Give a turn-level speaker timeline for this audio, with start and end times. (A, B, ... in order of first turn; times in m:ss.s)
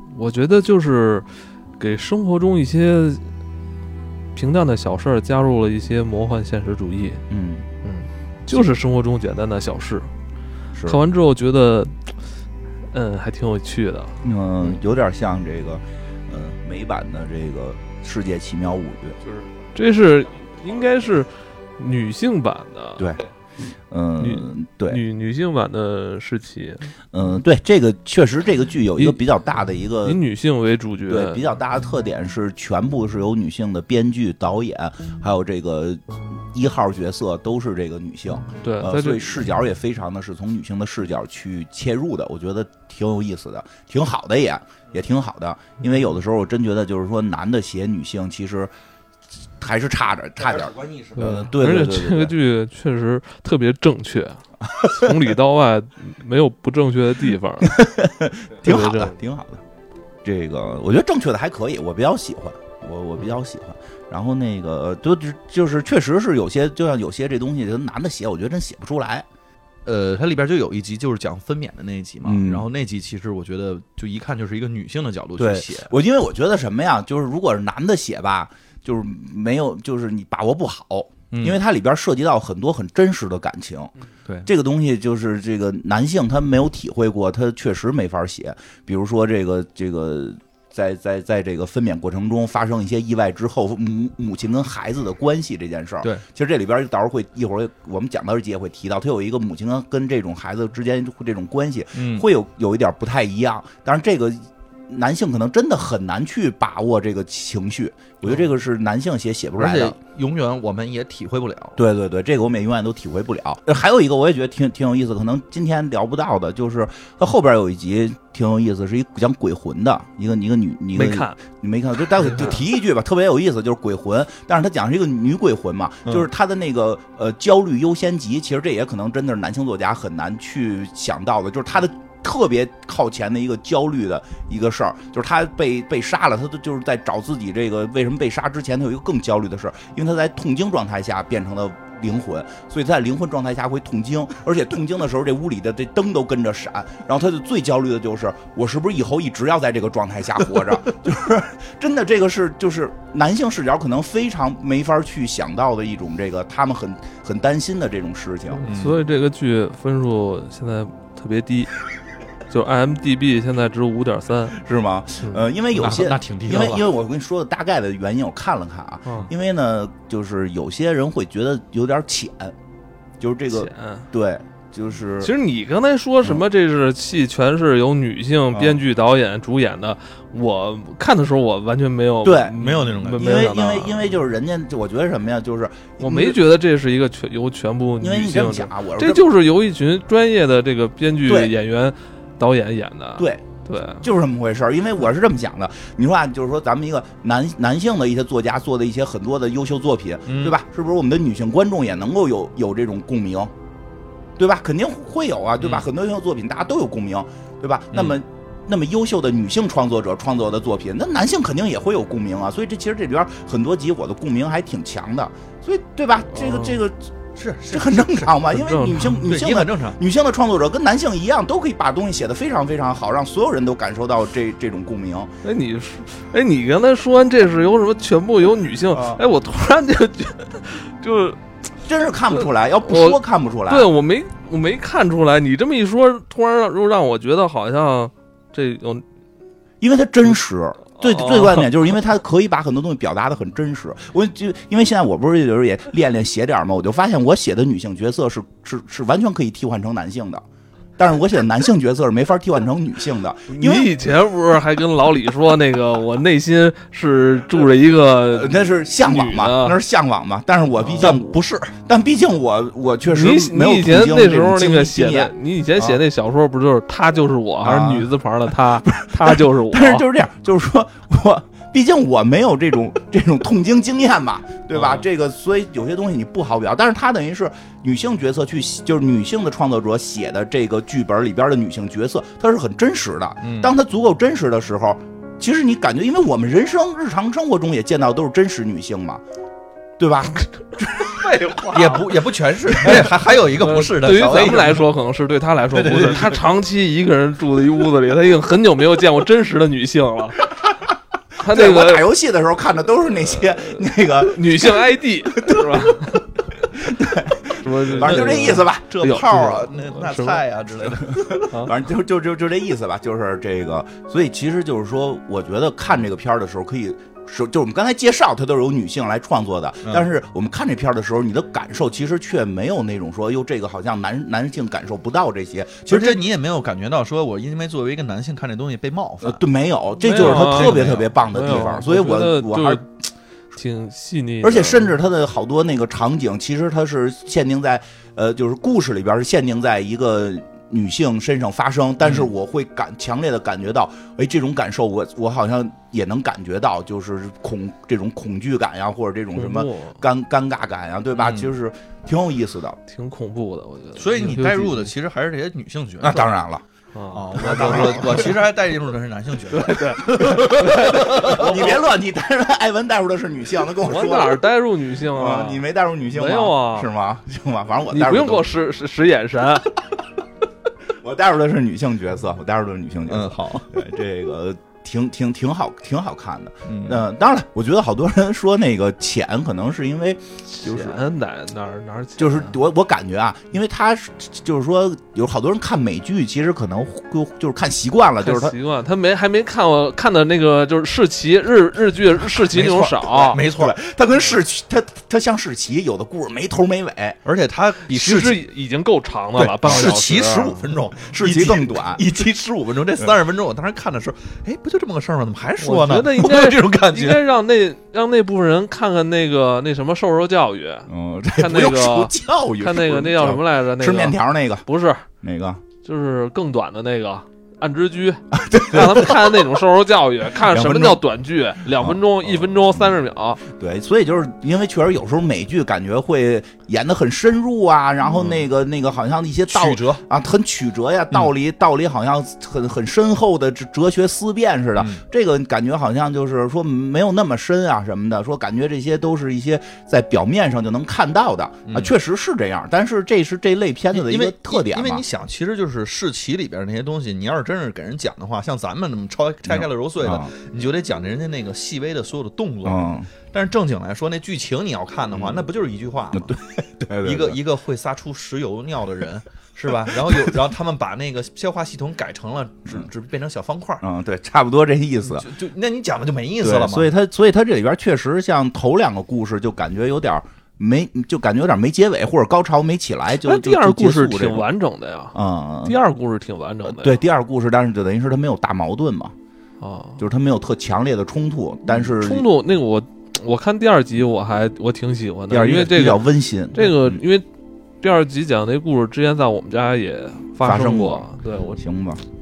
0:00.1-0:01.3 A
0:01.8-0:03.2 A
0:04.3-0:07.2 A
0:07.3-0:07.7 B
0:07.8-0:10.1 A
0:10.7-0:11.0 B
0:10.9-0:12.1 A
0:12.9-0:14.7 A
0:14.2-0:19.2 B
0:19.7-0:23.1 A
0:23.9-0:25.0 B
0:24.2-0:26.8 A
0:27.1-0:30.2 B
0:30.0-0:31.4 A
0:31.1-0:48.7 B
0:38.6-0:39.4 A
0:49.6-0:52.3 B
0:50.5-0:51.3 C
0:51.2-0:57.8 A
0:57.6-0:59.6 B
0:58.6-0:59.2 A
1:00.2-1:09.2 B
1:09.8-1:15.9 C
1:12.2-1:12.7 B
1:15.4-1:23.9 B
1:21.3-1:21.6 C
1:24.4-1:50.0 B
1:41.9-1:42.2 C
1:49.6-1:51.8 C
1:51.8-2:38.6 B
2:00.9-2:01.4 A
2:02.2-2:02.6 A
2:38.5-2:41.8 A
2:38.6-2:39.0 C
2:42.5-2:44.6 A
2:44.5-2:52.5 B
2:45.7-2:46.9 C
2:53.2-2:55.3 B
2:53.5-2:54.1 A
2:55.2-3:04.0 A
2:58.5-2:58.8 B
3:02.2-3:02.5 B
3:02.6-3:03.4 C
3:03.1-3:06.4 B
3:06.0-3:14.0 A
3:08.0-3:09.3 B
3:11.2-3:11.5 B
3:13.2-3:13.4 B
3:14.0-3:23.5 B
3:20.3-3:20.6 C
3:24.4-3:37.0 B
3:25.6-3:25.9 C
3:27.9-3:28.2 C
3:36.3-3:36.8 A
3:37.4-3:38.3 C
3:37.7-3:45.3 B
3:38.4-3:39.3 A
3:39.2-3:40.0 C
3:45.4-3:51.4 A
3:48.9-3:49.2 B
3:51.8-3:53.9 B
3:52.3-3:59.0 A
3:59.8-4:10.4 B
4:01.0-4:01.7 A
4:11.0-4:13.9 B
4:13.5-4:19.8 A
4:18.3-4:26.0 B
4:20.9-4:21.8 C
4:23.0-4:30.0 A
4:27.6-4:49.2 B
4:43.4-4:43.7 C
4:50.0-4:51.2 B
4:51.0-4:52.1 A
4:51.7-4:54.9 C
4:52.8-4:53.1 B
4:52.8-5:00.6 A
4:55.7-4:56.4 C
5:01.4-5:02.1 A
5:01.4-5:09.0 B
5:03.2-5:06.3 A
5:07.6-5:10.4 A
5:07.9-5:11.4 C
5:11.0-5:26.2 B
5:11.4-5:11.7 A
5:25.9-5:29.4 C
5:29.2-5:32.9 B
5:30.0-5:32.8 A
5:30.0-5:31.1 C
5:33.5-5:34.9 A
5:34.4-5:52.8 B
5:42.0-5:42.3 C
5:49.3-5:50.0 A
5:51.1-5:51.5 C
5:52.9-5:54.9 A
5:54.0-5:56.3 C
5:56.0-5:56.6 B
5:56.9-5:58.3 A
5:57.1-6:01.7 C
5:57.4-5:58.3 B
5:59.5-6:01.6 A
6:00.6-6:04.4 B
6:03.8-6:06.9 A
6:05.1-6:08.5 B
6:07.9-6:09.7 A
6:11.0-6:21.0 B
6:13.1-6:13.7 C
6:16.7-6:17.0 C
6:20.5-6:22.6 A
6:22.2-6:28.5 B
6:28.2-6:33.4 A
6:32.5-6:33.8 C
6:33.3-6:37.2 B
6:37.2-6:38.4 C
6:37.9-6:40.6 A
6:39.4-6:47.2 C
6:41.2-6:42.0 B
6:45.6-6:55.1 A
6:50.9-6:54.6 B
6:55.2-6:55.6 B
6:55.8-7:03.4 A
6:58.3-6:59.5 B
7:00.4-7:01.0 B
7:01.8-7:25.0 B
7:08.0-7:08.5 C
7:09.5-7:10.0 C
7:14.8-7:15.0 C
7:21.7-7:21.9 C
7:23.9-7:36.4 C
7:29.4-7:30.3 B
7:32.6-7:33.1 B
7:35.1-7:35.5 B
7:36.1-7:37.4 B
7:37.0-7:43.8 C
7:39.7-7:40.4 B
7:43.8-7:45.3 B
7:45.0-7:46.9 C
7:46.4-7:54.4 B
7:53.2-7:57.0 A
7:55.1-7:55.7 B
7:56.6-7:59.1 B
7:59.6-8:00.0 A
8:00.0-8:02.3 B
8:01.7-8:07.2 A
8:05.3-8:07.0 B
8:07.8-8:11.6 A
8:10.4-8:12.0 B